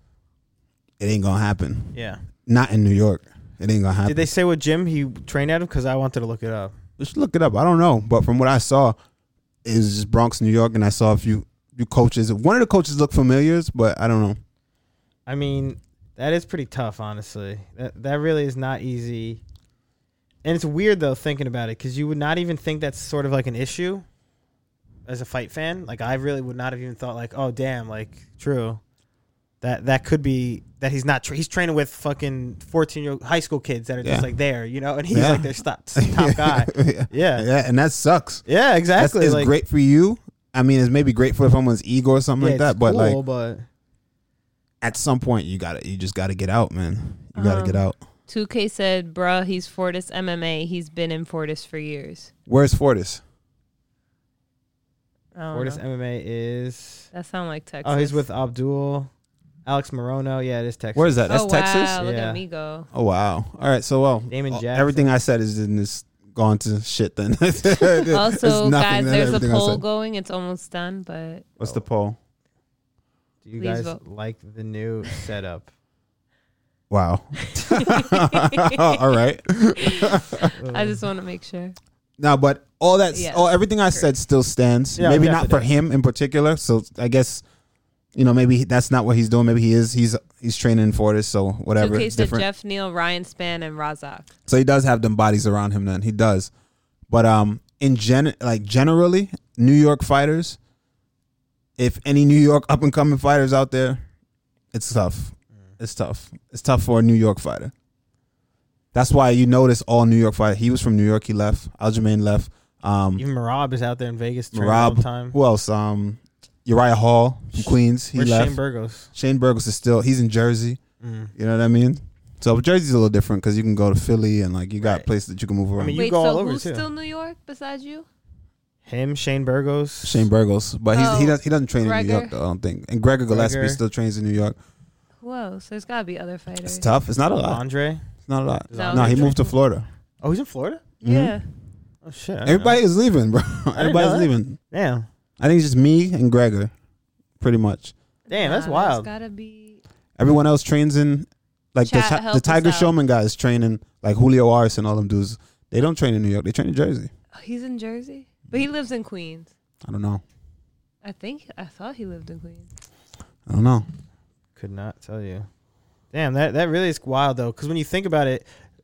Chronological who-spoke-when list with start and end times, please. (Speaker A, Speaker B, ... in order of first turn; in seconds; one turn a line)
Speaker A: 1.0-4.2
Speaker B: 1.9-2.2
Speaker B: 4.0-6.7
Speaker A: 7.0-9.0
Speaker A: 9.7-14.4
Speaker B: 15.3-19.4
Speaker B: 20.4-24.1
Speaker B: 25.1-28.8
Speaker B: 29.6-37.5
Speaker A: 34.0-34.3
Speaker A: 35.1-38.5
Speaker B: 38.5-39.5
Speaker A: 39.0-43.2
Speaker B: 42.4-43.7
Speaker A: 44.8-48.0
Speaker C: 47.4-52.3
Speaker A: 52.5-53.2
Speaker C: 55.4-55.8
Speaker B: 55.5-57.1
Speaker C: 57.1-58.2
Speaker B: 57.8-59.1
Speaker B: 59.7-61.3
Speaker A: 61.0-62.0
Speaker C: 61.3-62.9
Speaker B: 62.0-62.4
Speaker A: 62.9-69.8
Speaker B: 64.3-65.1
Speaker C: 67.9-71.5
Speaker A: 71.6-72.2
Speaker B: 73.5-75.7
Speaker C: 73.6-74.0
Speaker A: 76.9-80.5
Speaker C: 77.5-79.2
Speaker C: 79.8-81.8
Speaker B: 80.5-81.0
Speaker A: 82.2-87.4
Speaker C: 83.1-84.0
Speaker B: 85.0-85.7
Speaker A: 88.2-92.5
Speaker C: 91.8-94.3
Speaker A: 94.5-96.5
Speaker A: 97.1-100.6
Speaker A: 101.8-104.0
Speaker A: 104.7-107.7
Speaker A: 108.9-113.2
Speaker B: 113.2-115.3
Speaker A: 114.5-118.6
Speaker B: 117.6-119.1
Speaker A: 119.1-120.8
Speaker B: 121.0-121.3
Speaker A: 121.4-126.0
Speaker B: 124.8-125.1
Speaker B: 125.8-126.8
Speaker C: 126.0-128.1
Speaker B: 128.8-130.3
Speaker A: 130.0-134.6
Speaker C: 130.9-132.3
Speaker B: 133.3-133.8
Speaker C: 135.2-136.9
Speaker A: 136.6-137.6
Speaker B: 137.4-138.1
Speaker A: 138.2-139.9
Speaker B: 138.7-139.4
Speaker C: 138.7-139.5
Speaker B: 140.2-140.8
Speaker A: 141.0-141.4
Speaker C: 141.0-141.5
Speaker B: 142.0-142.8
Speaker A: 142.4-144.6
Speaker B: 143.8-145.1
Speaker A: 145.4-146.7
Speaker A: 147.4-147.9
Speaker C: 148.3-149.8
Speaker B: 148.3-149.1
Speaker A: 150.2-157.1
Speaker C: 151.9-152.9
Speaker C: 157.3-159.5
Speaker A: 159.8-160.2
Speaker C: 161.0-162.7
Speaker A: 163.5-163.9
Speaker B: 164.6-165.5
Speaker B: 166.1-168.5